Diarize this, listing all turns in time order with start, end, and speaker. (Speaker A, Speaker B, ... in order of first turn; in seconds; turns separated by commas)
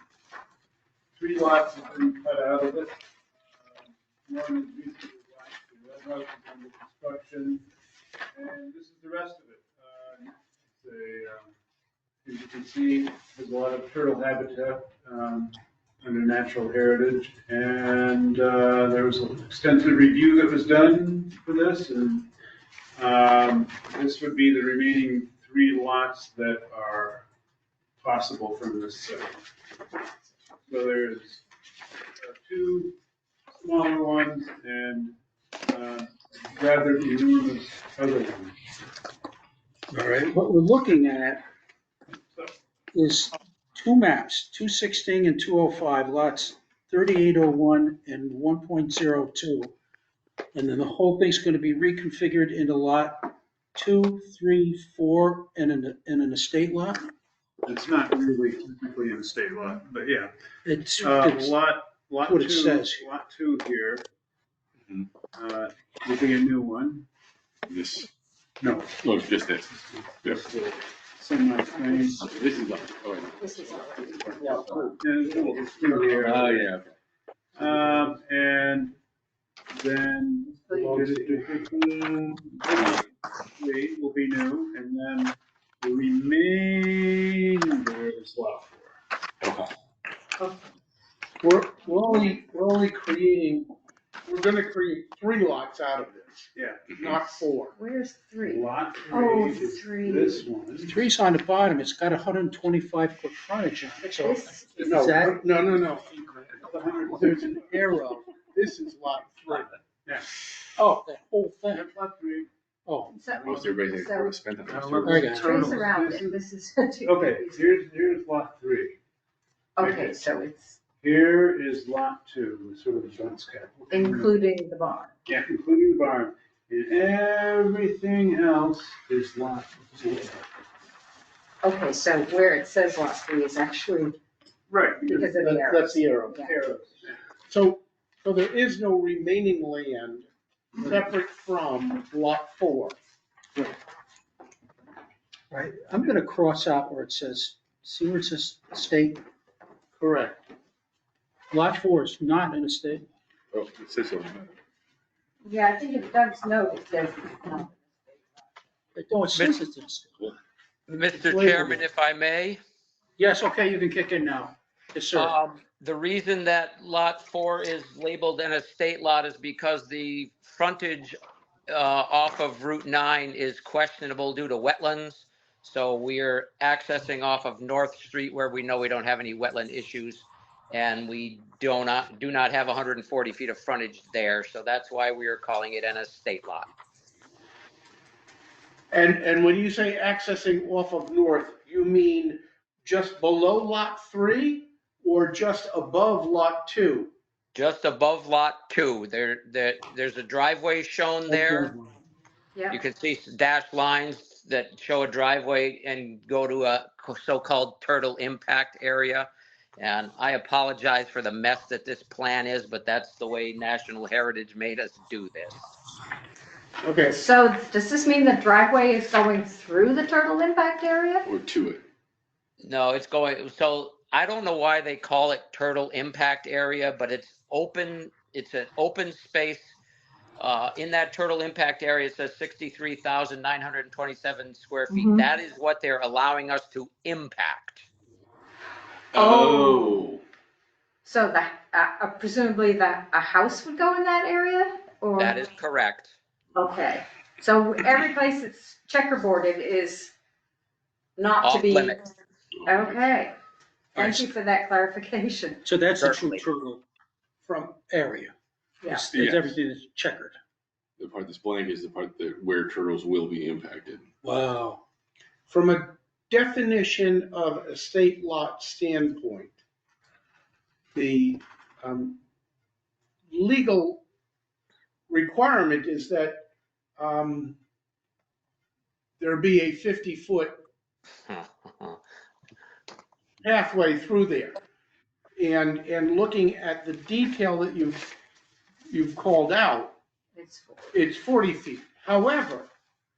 Speaker A: 1.1-7.7, Speaker A: 8.3-11.5, Speaker A: 12.2-22.3, Speaker A: 23.0-27.3, Speaker A: 28.0-29.4, Speaker A: 30.6-31.4, Speaker A: 32.2-33.0, Speaker A: 33.5-38.6, Speaker B: 39.9-41.4, Speaker B: 42.9-49.7, Speaker B: 50.5-57.1, Speaker A: 57.6-60.3, Speaker B: 60.6-61.6, Speaker A: 61.0-64.1, Speaker B: 62.2-63.0, Speaker A: 65.3-67.0, Speaker C: 67.7-68.1, Speaker A: 68.6-69.0, Speaker C: 69.0-69.7, Speaker A: 69.7-72.2, Speaker D: 71.7-72.0, Speaker C: 72.2-74.9, Speaker D: 73.4-74.6, Speaker E: 74.4-74.6, Speaker A: 74.9-76.7, Speaker C: 75.9-76.9, Speaker A: 77.5-79.0, Speaker E: 77.6-78.0, Speaker A: 79.7-89.0, Speaker E: 80.7-81.6, Speaker C: 89.4-89.7, Speaker E: 91.4-93.7, Speaker E: 94.2-97.7, Speaker A: 96.5-97.2, Speaker D: 97.7-100.4, Speaker A: 98.4-101.0, Speaker B: 100.8-105.4, Speaker D: 104.0-104.9, Speaker E: 104.8-106.5, Speaker A: 106.5-107.7, Speaker E: 107.1-109.7, Speaker A: 110.0-110.3, Speaker B: 110.8-111.9, Speaker A: 111.7-112.5, Speaker B: 112.9-113.1, Speaker D: 113.1-114.4, Speaker C: 113.4-115.4, Speaker A: 114.7-116.3, Speaker B: 115.0-115.6, Speaker D: 115.3-117.6, Speaker A: 117.0-119.0, Speaker D: 119.8-120.8, Speaker A: 119.8-120.2, Speaker A: 121.0-124.3, Speaker D: 123.9-125.1, Speaker A: 125.2-130.4, Speaker D: 131.6-134.2, Speaker A: 134.7-135.3, Speaker E: 135.0-136.5, Speaker D: 135.1-136.5, Speaker A: 136.3-137.2, Speaker E: 137.5-142.9, Speaker B: 145.5-149.2, Speaker E: 150.0-150.4, Speaker B: 151.5-153.1, Speaker C: 153.5-154.5, Speaker D: 155.4-158.4, Speaker B: 158.9-160.3, Speaker F: 160.9-162.6, Speaker E: 161.1-161.8, Speaker B: 163.2-165.3, Speaker F: 165.1-171.2, Speaker F: 171.7-186.7, Speaker E: 188.9-197.1, Speaker F: 197.5-201.7, Speaker B: 201.3-201.9, Speaker D: 202.5-202.8, Speaker F: 202.7-215.6, Speaker E: 216.8-217.2, Speaker D: 217.0-221.2, Speaker C: 221.2-221.8, Speaker F: 222.6-229.7, Speaker F: 230.4-237.8, Speaker D: 234.9-235.2, Speaker C: 239.1-240.2, Speaker D: 239.1-240.0, Speaker D: 241.0-245.5, Speaker F: 245.2-246.1, Speaker D: 246.5-250.1, Speaker D: 251.2-252.1, Speaker F: 251.4-252.0, Speaker C: 252.7-253.0, Speaker D: 252.7-253.3, Speaker D: 253.9-255.6, Speaker B: 254.0-254.3, Speaker B: 255.6-256.8, Speaker F: 256.0-256.4, Speaker B: 257.5-258.3, Speaker D: 258.8-259.1, Speaker B: 258.9-260.4, Speaker C: 259.1-259.6, Speaker C: 261.0-264.1, Speaker B: 264.2-264.8, Speaker E: 265.5-269.5, Speaker E: 270.9-272.2, Speaker E: 273.3-274.0, Speaker E: 275.1-276.5, Speaker E: 277.0-277.6, Speaker E: 279.2-280.6, Speaker F: 281.3-282.0, Speaker E: 283.4-284.6, Speaker E: 285.4-288.1, Speaker E: 288.9-289.9, Speaker D: 290.3-290.9, Speaker E: 290.9-292.7